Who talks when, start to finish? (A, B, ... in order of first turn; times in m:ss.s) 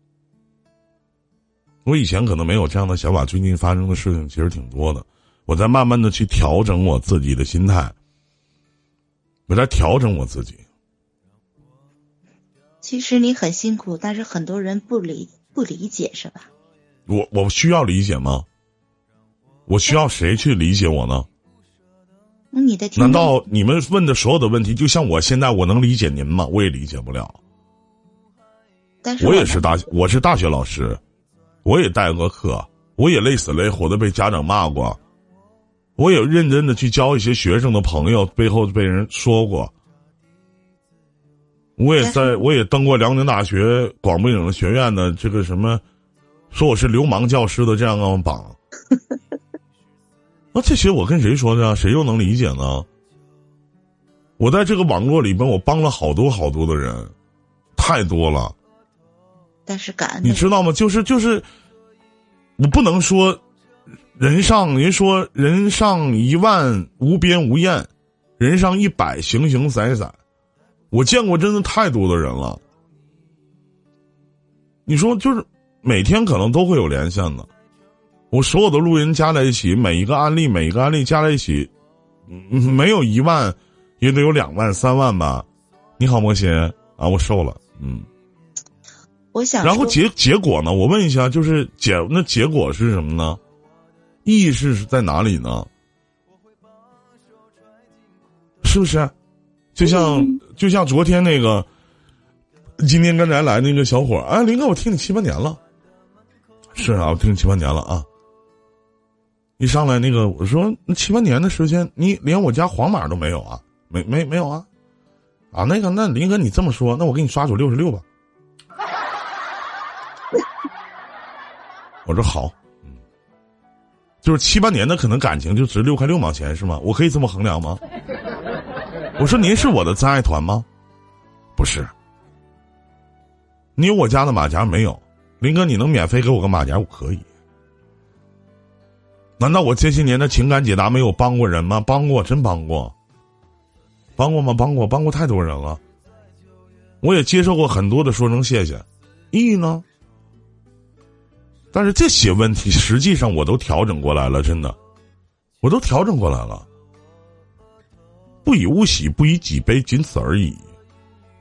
0:01.8-0:08.0 A
0:09.5-0:10.6 A
0:12.8-0:16.5 B
0:17.1-0:18.5 A
0:19.7-0:21.3 A
0:22.5-0:23.3 B
0:23.0-0:27.4 A
0:29.0-0:29.8 B
0:29.2-0:31.0 A
0:31.6-0:35.0 A
0:36.0-0:39.7 A
0:41.8-0:45.8 A
0:42.0-0:42.4 B
0:46.5-0:48.6 A
0:50.5-0:52.9 A
0:54.4-0:57.1 A
0:57.8-0:58.6 A
0:59.7-1:00.5 B
1:00.2-1:01.5 A
1:02.6-1:03.4 A
1:04.2-1:10.2 A
1:10.9-1:12.6 A
1:14.9-1:17.5 A
1:18.3-1:21.7 A
1:22.3-1:25.5 A
1:26.0-1:28.1 A
1:29.3-1:30.0 B
1:29.6-1:33.4 A
1:34.2-1:35.7 A
1:38.6-1:39.1 A
1:39.7-1:41.7 A
1:39.8-1:40.4 B
1:42.8-1:45.6 A
1:46.8-1:48.1 A
1:49.6-1:54.7 A
1:55.5-1:58.0 A
2:02.1-2:03.0 A
2:04.2-2:07.8 A
2:09.2-2:10.7 A
2:11.6-2:11.9 A
2:13.8-2:17.3 A
2:19.4-2:22.9 A
2:24.2-2:25.8 A
2:27.0-2:29.8 A
2:31.7-2:34.8 A
2:35.6-2:36.7 A
2:38.4-2:40.7 A